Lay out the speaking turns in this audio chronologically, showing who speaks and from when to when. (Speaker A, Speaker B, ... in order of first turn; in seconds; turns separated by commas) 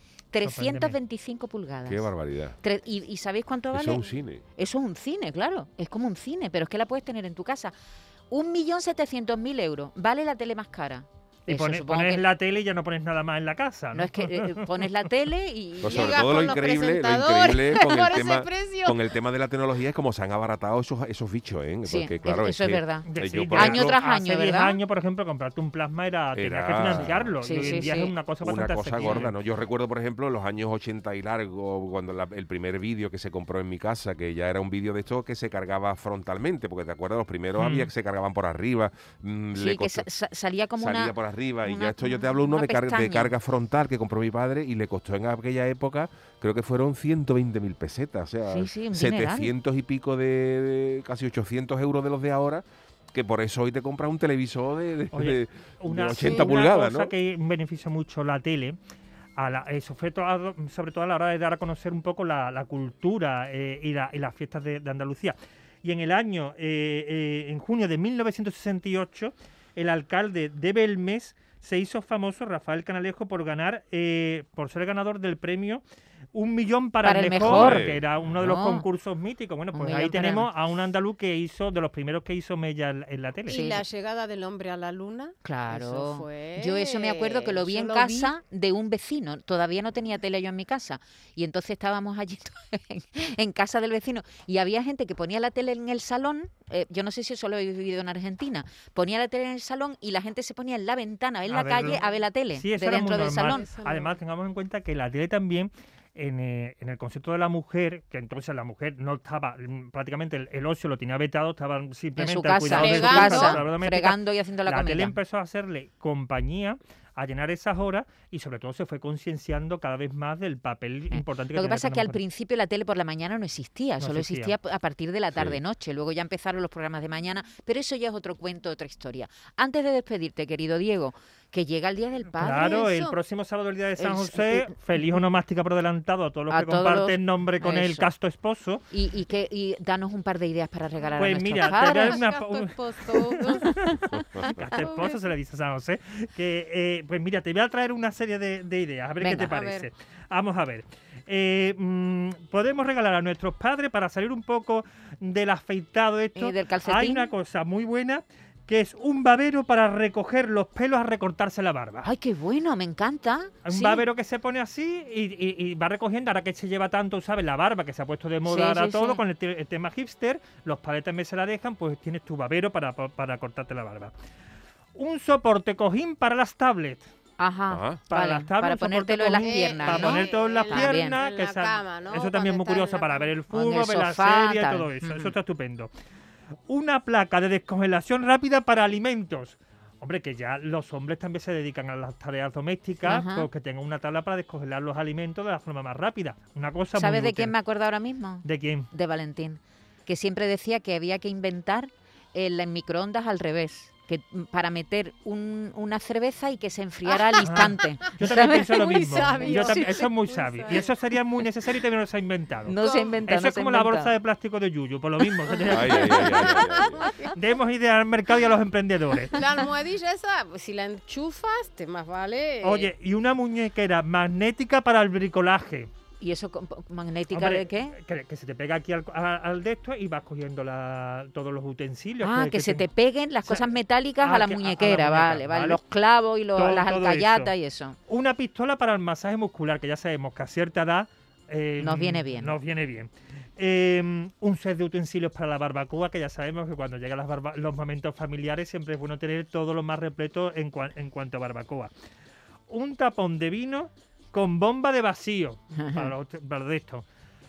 Speaker A: 0.3-7.7, Speaker B: 0.4-1.0, Speaker C: 1.8-2.6, Speaker C: 3.7-4.4, Speaker A: 8.3-12.2, Speaker B: 11.5-14.9, Speaker A: 13.9-16.3, Speaker C: 15.8-24.0, Speaker D: 15.8-19.1, Speaker A: 21.8-24.8, Speaker B: 23.1-29.3, Speaker C: 26.3-27.8, Speaker A: 27.4-28.1, Speaker C: 28.4-40.1, Speaker B: 37.6-37.9, Speaker A: 39.5-43.3, Speaker C: 40.8-57.1, Speaker A: 48.4-49.5, Speaker B: 55.1-58.8, Speaker D: 56.2-56.5, Speaker B: 59.4-75.8, Speaker B: 76.3-83.6, Speaker A: 77.0-77.8, Speaker C: 77.3-78.0, Speaker A: 78.4-78.8, Speaker A: 79.7-80.5, Speaker A: 83.5-83.8, Speaker D: 83.5-88.3, Speaker A: 85.4-103.6, Speaker B: 101.5-102.0, Speaker B: 102.5-122.2, Speaker D: 103.4-104.2, Speaker A: 112.2-115.2, Speaker D: 112.7-113.6, Speaker A: 121.1-132.8, Speaker B: 124.0-124.5, Speaker C: 125.3-125.6, Speaker B: 132.3-138.8, Speaker D: 132.4-133.2, Speaker A: 134.0-134.7, Speaker A: 136.5-138.1, Speaker A: 138.9-142.2, Speaker B: 141.2-162.1, Speaker D: 141.6-143.7, Speaker C: 144.1-144.8, Speaker D: 144.4-145.1, Speaker A: 149.2-149.6, Speaker D: 149.5-149.8, Speaker A: 156.3-157.3, Speaker A: 162.0-164.1, Speaker B: 163.6-174.1, Speaker A: 168.4-169.2, Speaker B: 174.9-177.0, Speaker A: 177.4-181.2, Speaker C: 177.7-178.0, Speaker B: 178.1-185.9, Speaker D: 179.4-183.3, Speaker A: 183.5-185.3, Speaker B: 186.7-197.6, Speaker A: 193.0-193.5, Speaker A: 196.9-208.8, Speaker B: 198.4-198.9, Speaker D: 207.1-207.4, Speaker B: 207.4-216.6, Speaker D: 208.2-210.9, Speaker A: 209.4-210.1, Speaker A: 212.7-214.1, Speaker D: 212.8-213.2, Speaker D: 215.4-217.3, Speaker C: 215.7-217.1, Speaker B: 217.2-219.6, Speaker D: 219.3-222.9, Speaker B: 222.6-225.9, Speaker A: 226.2-227.9, Speaker B: 227.3-232.9, Speaker A: 232.2-238.0, Speaker B: 233.4-235.8, Speaker B: 236.5-237.5, Speaker B: 238.1-251.9, Speaker A: 241.8-242.6, Speaker B: 252.7-257.1, Speaker A: 255.8-256.1